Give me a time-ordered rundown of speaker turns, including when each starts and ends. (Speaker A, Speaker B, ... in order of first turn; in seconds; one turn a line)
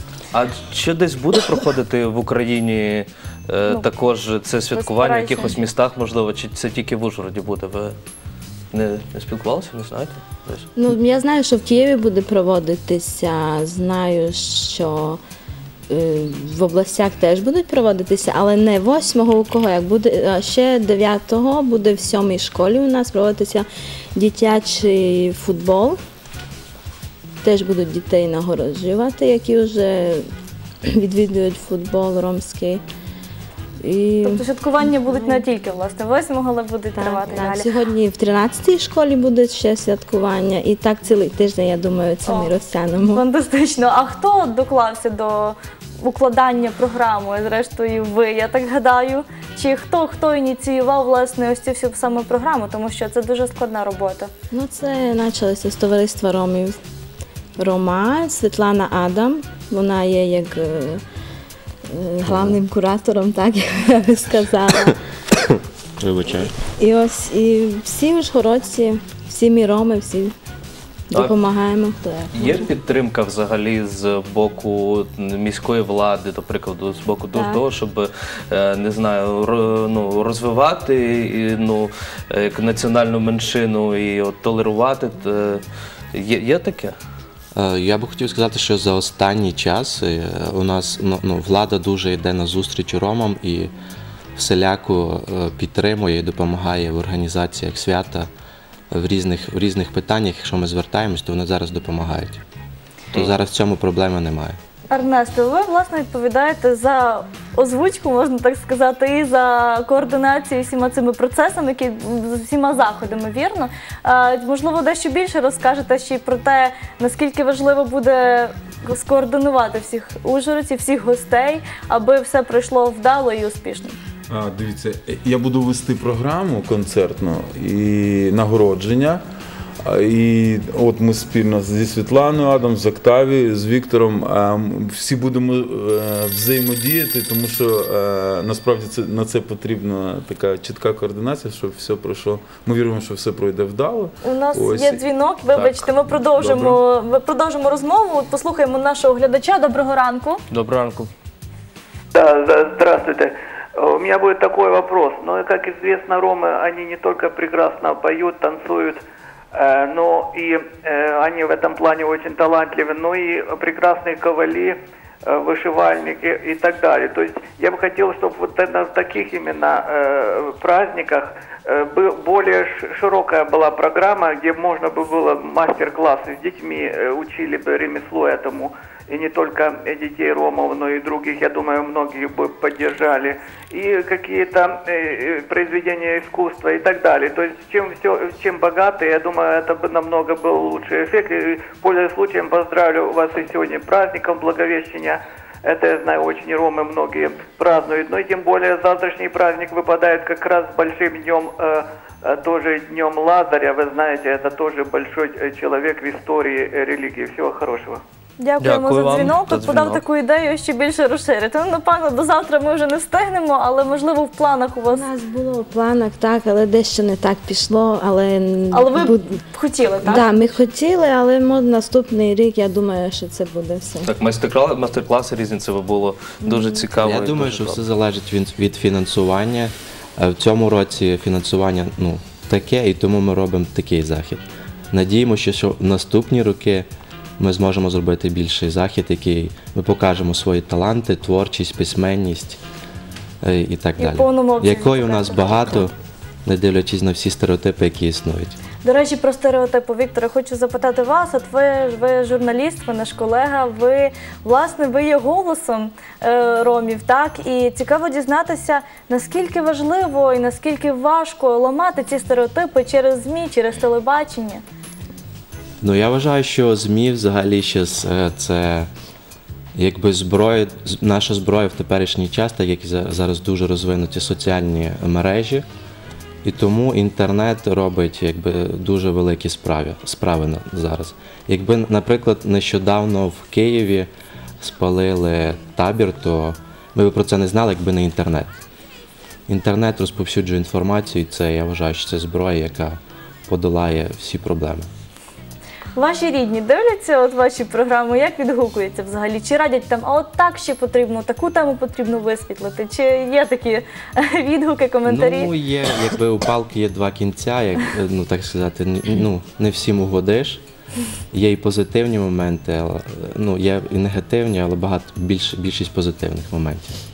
Speaker A: 0.3-8.0
Speaker B: 4.7-5.6
Speaker A: 8.7-10.7
Speaker C: 10.8-15.2
Speaker C: 15.9-26.0
Speaker C: 27.4-30.2
Speaker C: 30.9-32.8
Speaker C: 33.8-35.4
Speaker B: 34.2-37.7
Speaker C: 37.0-43.2
Speaker B: 42.3-54.3
Speaker C: 54.5-56.8
Speaker C: 57.6-61.0
Speaker C: 61.9-65.0
Speaker D: 62.3-62.6
Speaker D: 65.5-66.5
Speaker C: 66.6-70.3
Speaker C: 71.1-72.7
Speaker A: 72.3-85.6
Speaker C: 77.3-77.6
Speaker A: 86.1-87.0
Speaker D: 87.5-93.7
Speaker D: 94.4-98.3
Speaker D: 98.9-102.4
Speaker D: 103.1-104.6
Speaker B: 104.9-124.0
Speaker E: 124.3-129.2
Speaker E: 129.8-145.1
Speaker B: 144.2-150.4
Speaker E: 146.1-146.8
Speaker A: 150.5-151.1
Speaker F: 152.1-159.0
Speaker F: 159.5-164.8
Speaker F: 165.3-208.0
Speaker B: 208.4-215.1
Speaker A: 208.6-210.0
Speaker C: 214.9-219.4
Speaker B: 218.7-220.3
Speaker C: 220.0-224.1
Speaker A: 224.1-227.8
Speaker C: 226.5-226.8
Speaker D: 227.0-236.9
Speaker D: 237.4-242.6
Speaker D: 243.4-245.9
Speaker B: 244.0-245.9
Speaker D: 246.4-248.6
Speaker B: 248.8-264.6
Speaker D: 265.8-268.9
Speaker D: 269.8-275.6
Speaker D: 276.4-288.6
Speaker D: 289.5-294.9
Speaker B: 295.9-305.5
Speaker D: 305.1-310.6
Speaker D: 311.3-316.9